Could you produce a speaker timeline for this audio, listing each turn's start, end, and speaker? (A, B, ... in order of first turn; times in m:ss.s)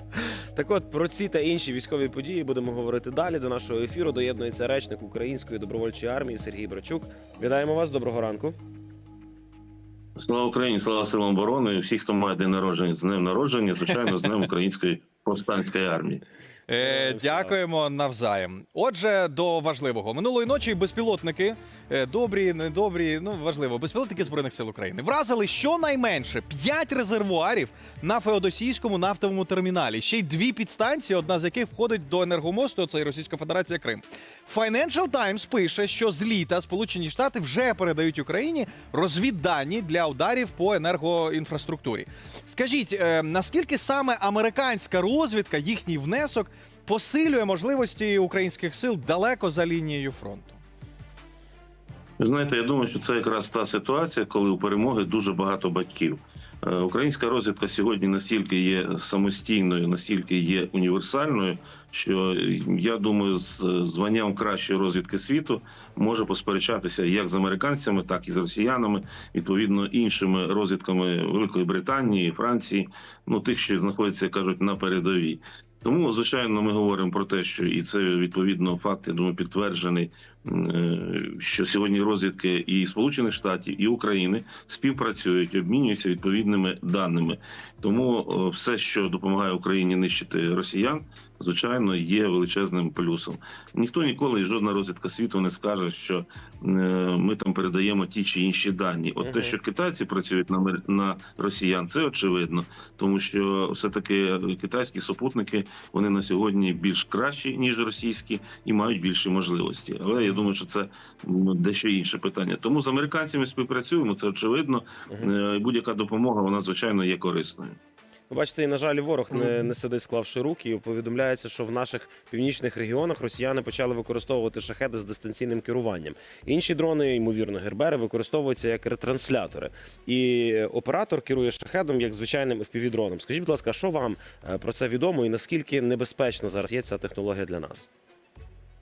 0:00.2-0:08.6 A
0:10.2-0:16.2 B
0:16.7-0:50.6 C
0:16.8-0:17.6 A
0:52.2-1:57.8 B
1:39.2-1:39.6 A
1:58.3-2:17.9 A
1:59.3-1:59.7 C